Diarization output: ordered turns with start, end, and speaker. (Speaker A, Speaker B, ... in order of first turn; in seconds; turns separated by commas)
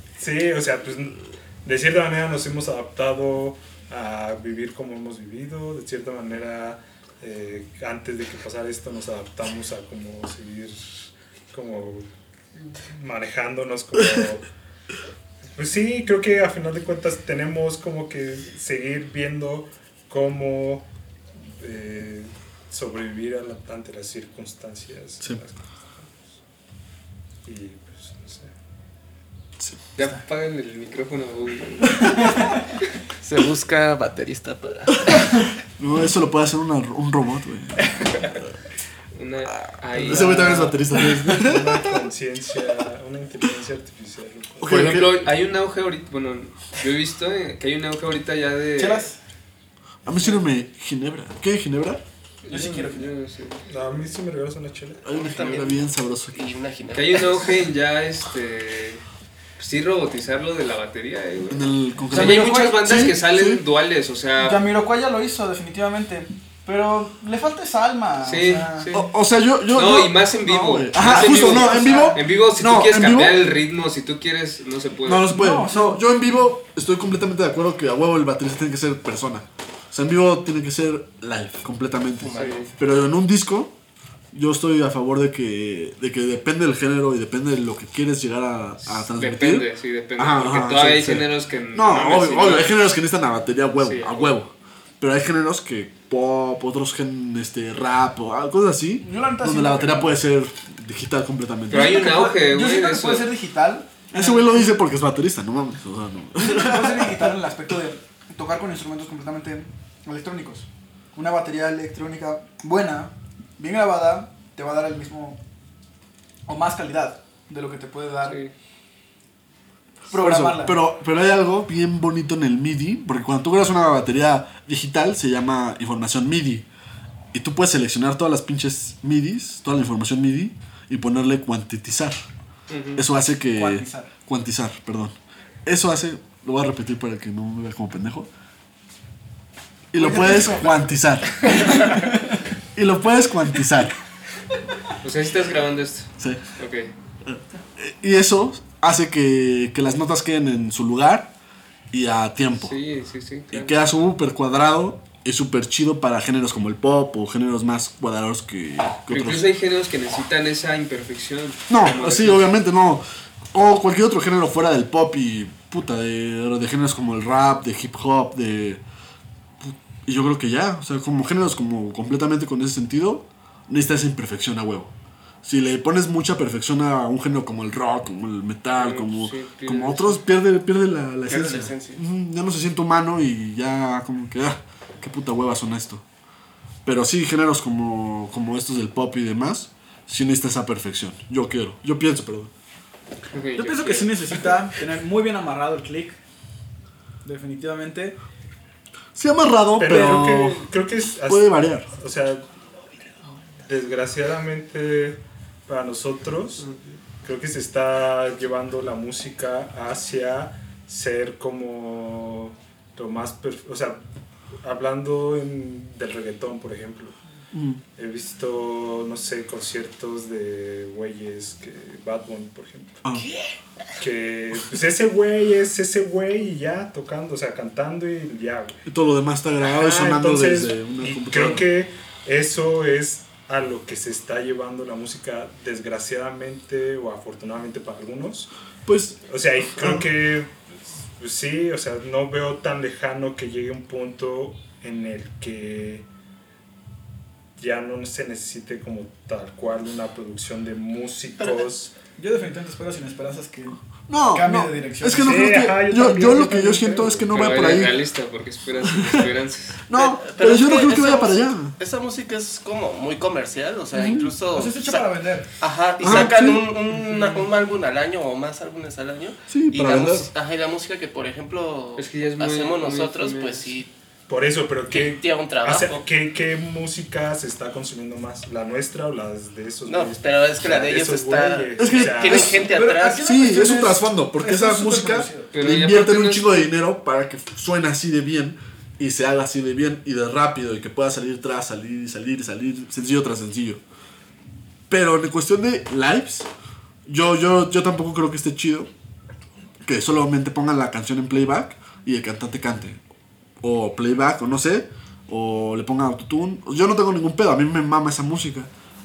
Speaker A: 0.1-14.5, Speaker A: 15.6-20.9, Speaker A: 21.4-26.3, Speaker A: 27.4-28.5, Speaker B: 29.9-32.2, Speaker C: 33.2-35.5, Speaker D: 35.8-38.4, Speaker B: 39.1-40.8, Speaker D: 40.0-42.0, Speaker E: 40.1-40.5, Speaker A: 40.9-44.9, Speaker D: 44.6-45.3, Speaker B: 44.6-49.1, Speaker E: 48.8-49.2, Speaker D: 50.0-52.0, Speaker B: 52.4-53.6, Speaker E: 52.5-53.1, Speaker A: 53.6-55.0, Speaker D: 55.0-56.4, Speaker C: 55.1-57.7, Speaker B: 56.9-59.0, Speaker B: 59.6-64.6, Speaker D: 61.5-63.6, Speaker E: 62.1-63.0, Speaker E: 64.4-68.9, Speaker B: 68.2-69.1, Speaker D: 68.9-73.4, Speaker B: 69.7-75.3, Speaker E: 71.2-72.2, Speaker D: 75.0-83.7, Speaker E: 75.3-76.0, Speaker C: 82.2-82.7, Speaker B: 82.3-82.7, Speaker D: 84.3-102.0, Speaker B: 88.8-92.7, Speaker B: 93.8-94.3, Speaker E: 99.0-100.2, Speaker B: 101.7-103.3, Speaker E: 101.7-104.7, Speaker D: 104.1-107.4, Speaker E: 106.4-115.4, Speaker E: 116.5-118.4, Speaker B: 118.2-118.5, Speaker E: 120.1-120.8, Speaker D: 120.1-126.7, Speaker D: 127.3-132.2, Speaker B: 132.7-133.0, Speaker D: 132.9-138.3, Speaker E: 133.5-134.1, Speaker D: 139.9-142.0, Speaker E: 139.9-140.8, Speaker E: 141.4-142.2, Speaker D: 142.7-144.0, Speaker B: 145.0-146.9, Speaker D: 147.3-151.3, Speaker D: 151.9-152.8, Speaker B: 152.6-153.8, Speaker D: 153.5-159.4, Speaker B: 159.1-162.5, Speaker D: 161.7-168.8, Speaker D: 169.6-174.9, Speaker D: 175.4-186.0, Speaker B: 178.8-180.2, Speaker C: 181.2-182.0, Speaker D: 186.8-192.5, Speaker B: 193.3-194.4, Speaker E: 193.6-196.2, Speaker E: 197.2-198.2, Speaker D: 199.1-200.7, Speaker A: 199.8-202.4, Speaker E: 199.9-200.2, Speaker D: 201.2-201.9, Speaker A: 203.6-214.0, Speaker A: 214.6-217.2, Speaker D: 217.5-217.8, Speaker A: 218.0-223.0, Speaker C: 223.1-223.6, Speaker A: 224.0-228.8, Speaker D: 228.8-231.7, Speaker A: 229.6-238.5, Speaker D: 238.8-239.2, Speaker A: 239.3-246.0, Speaker D: 239.7-240.0, Speaker A: 247.6-251.9, Speaker E: 252.2-255.5, Speaker D: 254.1-257.9, Speaker A: 255.2-257.2, Speaker B: 257.3-259.8, Speaker D: 259.9-261.7, Speaker C: 259.9-273.9, Speaker D: 263.9-264.3, Speaker E: 264.5-266.6, Speaker D: 266.0-266.7, Speaker D: 269.5-270.3, Speaker B: 272.0-273.7, Speaker A: 274.3-282.6, Speaker C: 274.9-276.0, Speaker C: 279.9-283.7, Speaker D: 281.8-282.6, Speaker E: 282.7-285.5, Speaker D: 283.2-293.8, Speaker B: 285.5-286.5, Speaker D: 294.9-296.5, Speaker D: 297.1-298.9, Speaker D: 299.8-303.0, Speaker D: 303.6-308.7